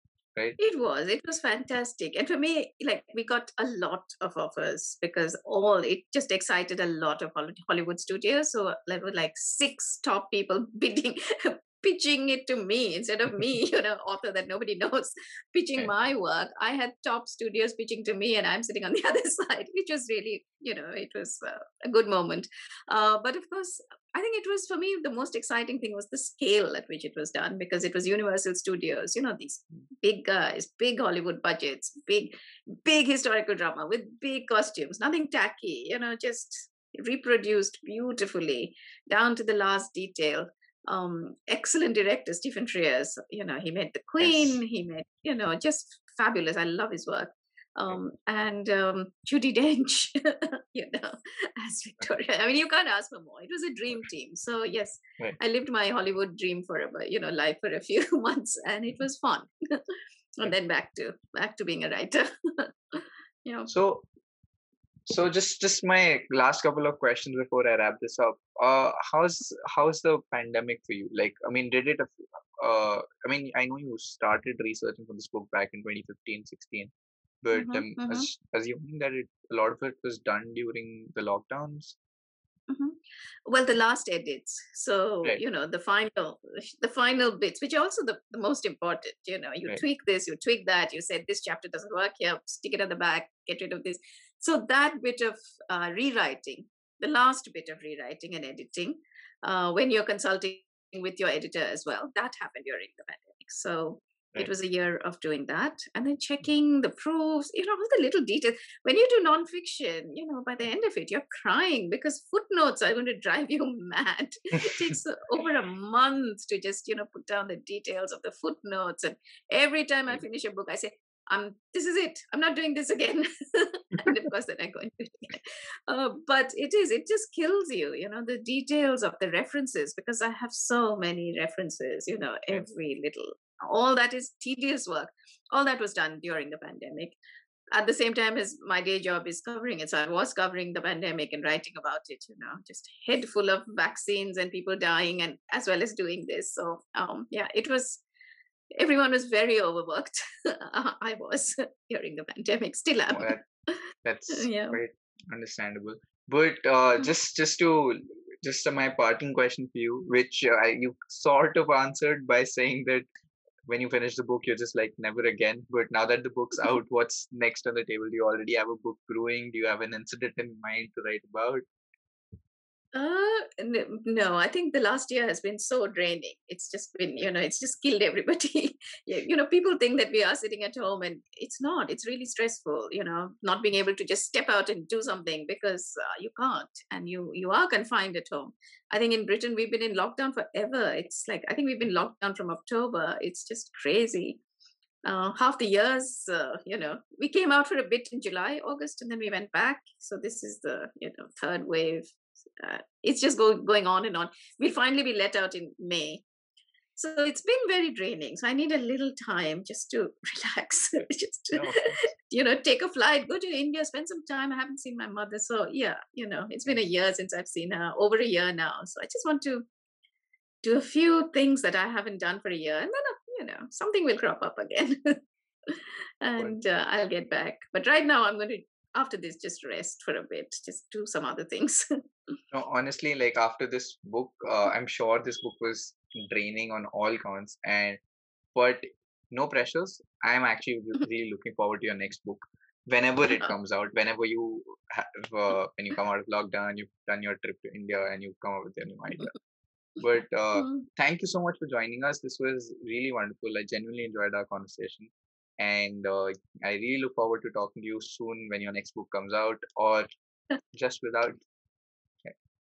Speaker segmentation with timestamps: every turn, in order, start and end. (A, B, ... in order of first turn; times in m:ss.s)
0:00.6-0:59.8 A
0:44.2-0:44.6 B
1:00.4-1:03.7 A
1:03.7-1:04.1 B
1:05.0-1:16.9 B
1:17.4-1:22.0 B
1:17.5-1:18.3 A
1:22.7-2:17.2 A
2:17.7-2:28.0 A
2:28.8-2:34.8 A
2:33.1-2:33.4 B
2:34.0-2:43.0 B
2:43.6-2:51.6 B
2:52.9-3:14.4 A
3:15.0-3:26.2 A
3:27.0-3:39.6 A
3:31.5-3:32.0 B
3:40.6-3:45.2 A
3:45.7-3:51.8 A
3:52.5-3:58.0 B
3:58.5-4:09.4 B
4:10.0-4:20.1 B
4:20.7-4:21.4 B